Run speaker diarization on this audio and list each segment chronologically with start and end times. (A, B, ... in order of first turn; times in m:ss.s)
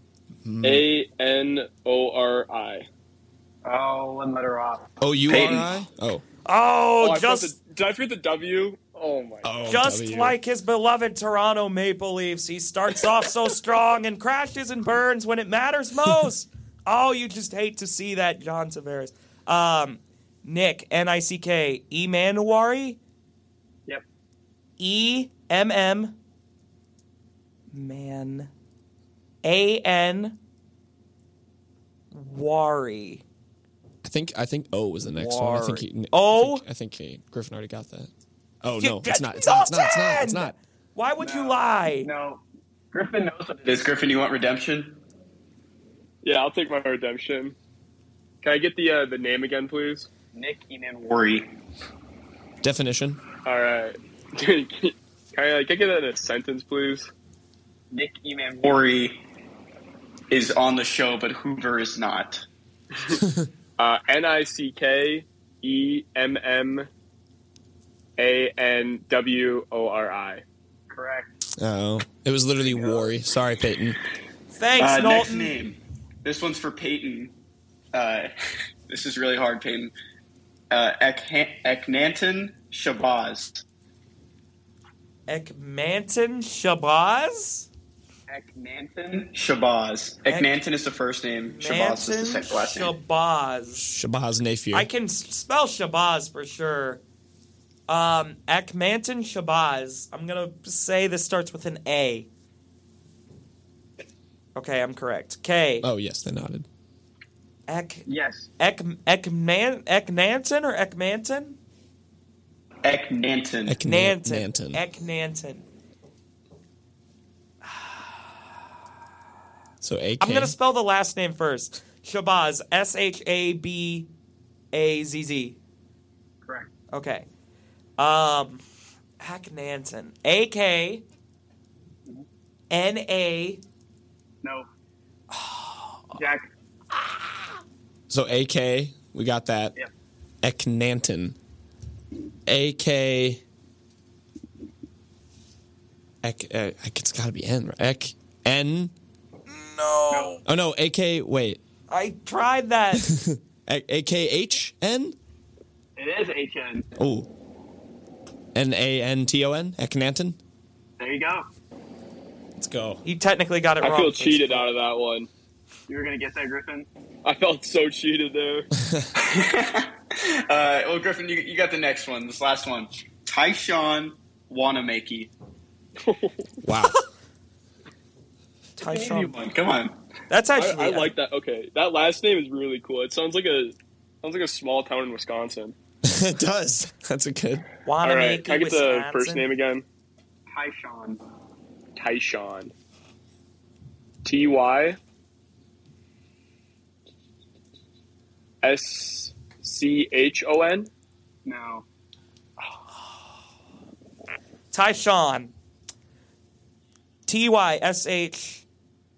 0:00.4-0:00.8 A
0:00.6-0:02.9 B
0:03.6-0:05.7 C
0:05.0-0:06.2 A
0:06.4-0:07.5 D
0:07.0-0:09.5 B
0:09.4-0:10.3 A
0:09.6-0:23.0 D
0:24.8-0:26.2 D
0:27.7-0:28.5 D
0:29.4-0:30.4 D
0:32.1-0:33.2 D
0:34.0-0:38.1 A
0:35.0-0:36.6 D
0:38.6-0:40.5 A
0:38.8-0:42.1 D
0:41.2-0:42.4 C
0:42.9-0:45.0 C
0:46.2-0:47.5 B
0:48.4-0:50.1 B
0:50.3-0:51.5 C
0:52.6-0:53.2 A
0:53.4-0:57.1 B
0:57.9-0:59.2 C
1:00.3-1:02.4 C
1:03.1-1:03.5 A
1:03.8-1:06.9 B
1:08.2-1:10.4 B
1:10.9-1:11.3 C
1:11.6-1:14.0 A
1:12.6-1:13.1 C
1:14.5-1:15.5 D
1:14.8-1:17.3 C
1:17.9-1:18.3 C
1:18.9-1:19.9 C
1:20.7-1:23.6 C
1:25.3-1:27.7 D
1:28.3-1:32.9 C
1:30.3-1:30.5 D
1:31.4-1:33.9 D
1:33.8-1:34.9 A
1:34.7-1:37.0 D
1:37.9-1:42.3 D
1:44.6-1:45.9 D
1:45.8-1:46.6 A
1:47.7-1:48.0 D
1:48.1-1:48.5 C
1:48.6-1:51.6 D
1:52.8-1:53.8 C
1:53.6-1:54.8 A
1:53.8-1:55.6 D
1:57.7-1:57.9 D
1:59.8-2:00.5 A
2:00.2-2:04.1 D
2:04.7-2:05.6 D
2:06.9-2:07.3 D
2:08.0-2:08.6 D
2:09.2-2:11.0 D
2:12.7-2:13.6 D
2:15.3-2:16.2 D
2:16.2-2:16.5 C
2:18.1-2:19.7 A
2:20.4-2:21.4 A
2:22.4-2:23.4 A
2:26.2-2:28.9 A
2:29.5-2:30.4 D
2:30.4-2:31.6 A
2:31.9-2:33.1 D
2:32.9-2:35.2 A
2:36.0-2:36.8 C
2:37.0-2:37.3 A
2:38.5-2:40.4 A
2:41.0-2:41.4 C
2:42.6-2:43.0 A
2:43.0-2:44.7 D
2:43.8-2:45.3 B
2:45.9-2:46.9 C
2:47.2-2:48.7 B
2:49.1-2:55.3 C
2:56.0-2:56.4 B
2:56.6-2:57.0 A
2:58.8-2:59.4 D
2:58.8-2:59.9 C
3:00.3-3:01.1 D
3:00.5-3:05.7 B
3:06.0-3:07.6 A
3:07.8-3:09.5 D
3:08.0-3:09.8 B
3:10.5-3:11.2 C
3:12.0-3:12.7 B
3:14.2-3:15.0 B
3:18.6-3:20.9 B
3:21.4-3:21.8 C
3:24.7-3:25.5 D
3:27.3-3:28.6 D